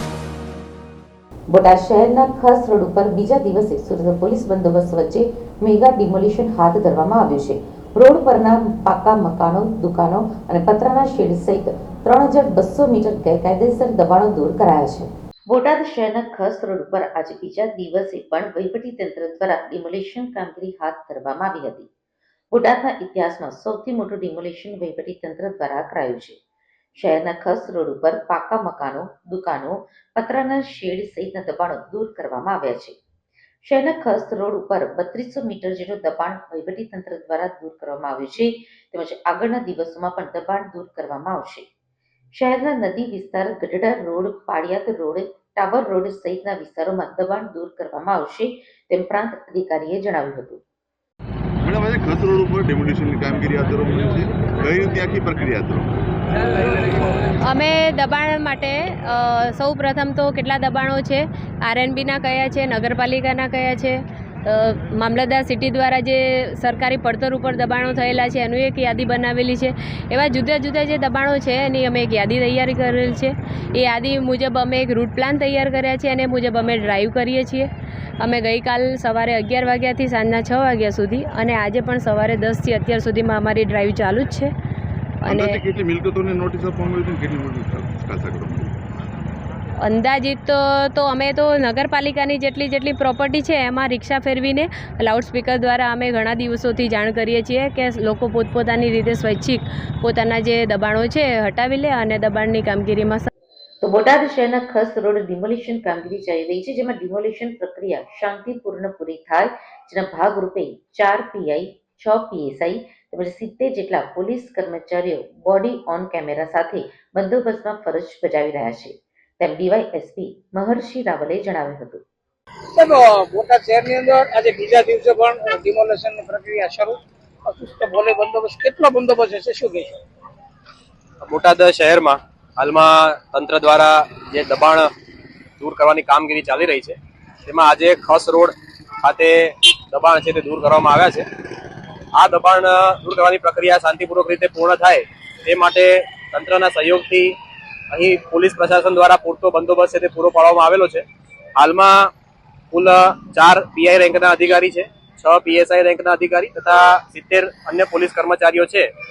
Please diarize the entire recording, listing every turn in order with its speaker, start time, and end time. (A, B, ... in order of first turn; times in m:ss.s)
0:01.5-0:21.9 A
0:22.5-0:26.4 A
0:27.0-0:33.0 A
0:33.6-0:41.7 A
0:42.3-0:50.6 A
0:51.6-0:56.0 B
0:57.4-1:24.5 C
1:25.2-1:25.6 C
1:25.3-1:28.8 B
1:29.8-1:43.3 C
1:43.8-2:02.0 A
2:02.7-2:10.0 D
2:11.2-2:14.9 E
2:15.6-2:21.2 E
2:22.1-2:27.4 E
2:27.9-2:31.0 E
2:31.6-2:32.1 E
2:32.7-2:38.9 E